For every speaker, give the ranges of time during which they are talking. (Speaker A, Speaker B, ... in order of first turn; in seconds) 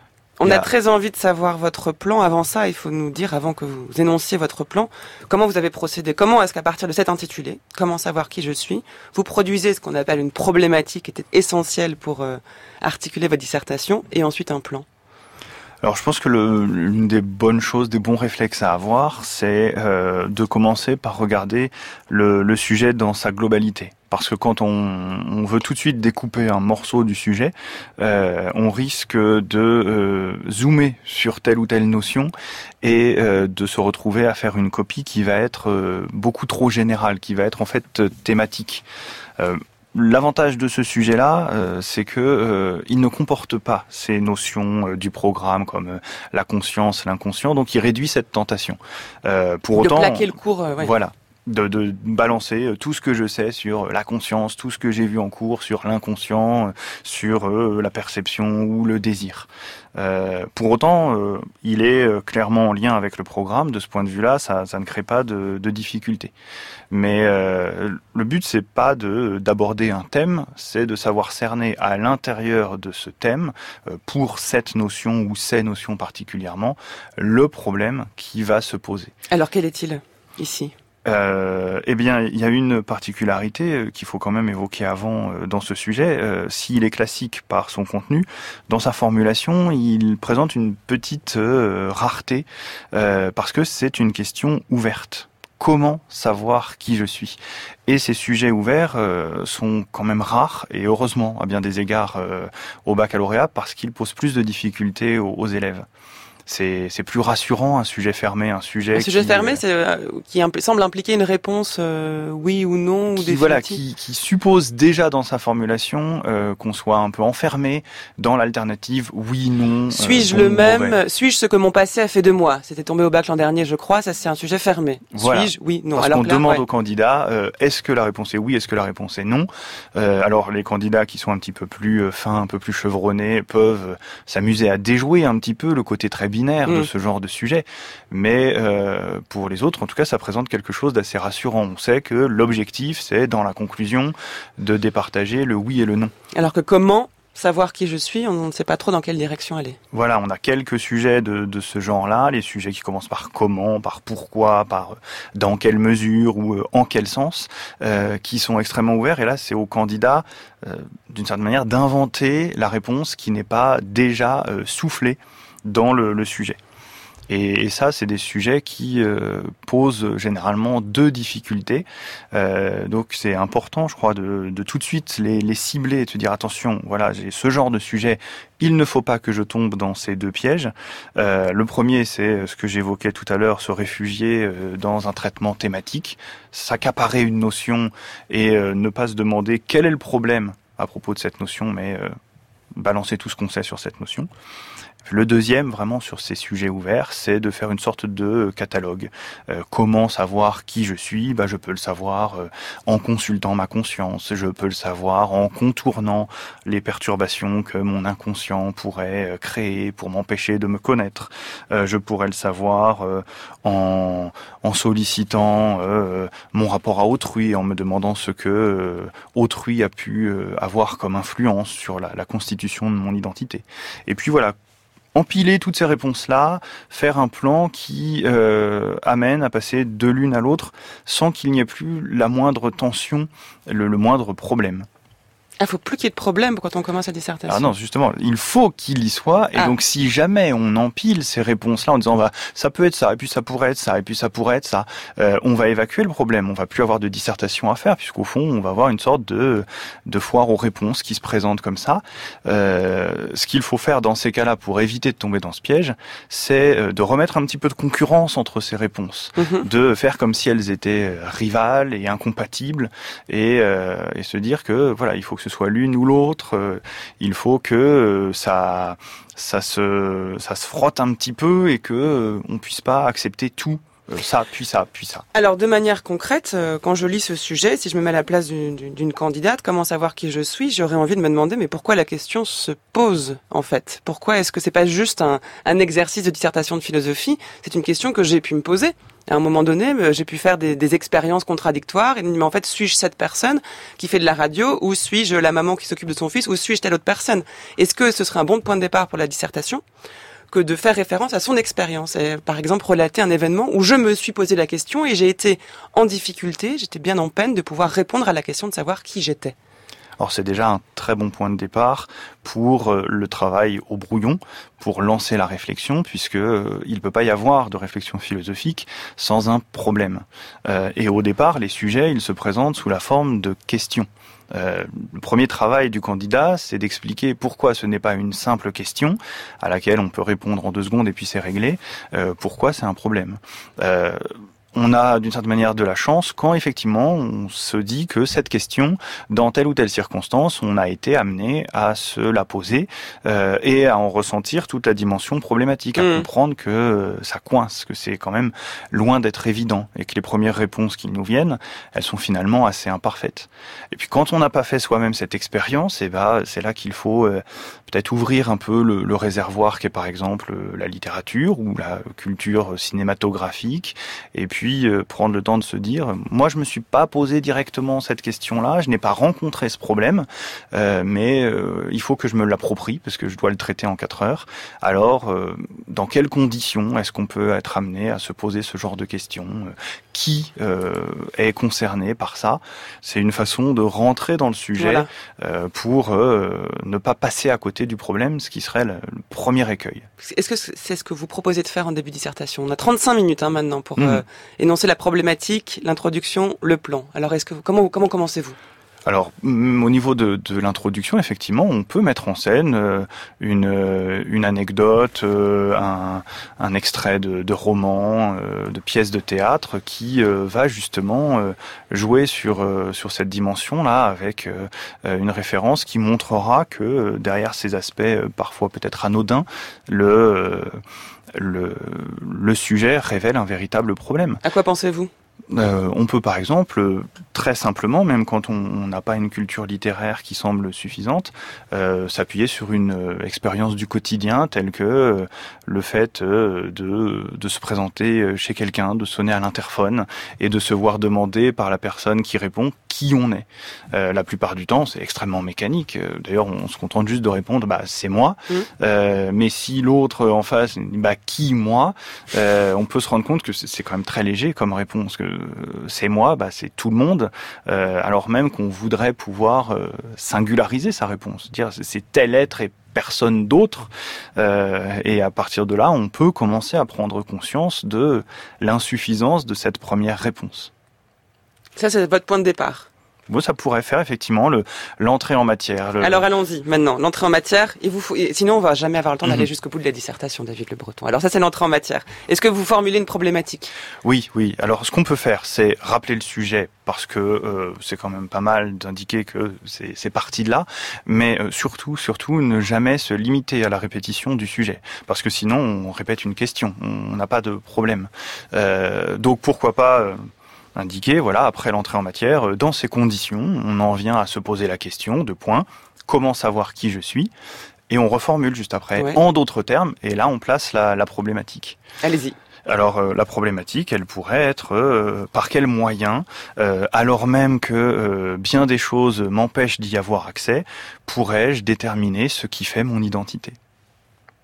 Speaker A: 0.4-14.9, 49.8-50.9, 79.3-80.7, 108.9-113.8, 119.9-126.6, 146.3-149.8, 235.6-237.7, 259.4-259.7, 275.3-299.8, 300.5-309.6, 346.0-346.3, 384.8-385.1, 390.2-398.6, 424.4-425.1, 471.8-472.9, 476.0-483.7, 512.0-512.4
Speaker B: 15.8-38.9, 39.4-66.3, 66.9-79.1, 81.0-105.9, 106.5-109.6, 113.1-121.0, 125.1-146.1, 149.9-166.6, 167.3-192.1, 192.7-194.3, 195.1-224.6, 225.1-234.9, 237.5-275.3, 310.2-390.1, 394.0-394.2, 399.1-420.8, 421.3-424.4, 425.5-470.7, 473.3-476.3, 484.0-507.3, 507.9-511.8, 512.7-523.6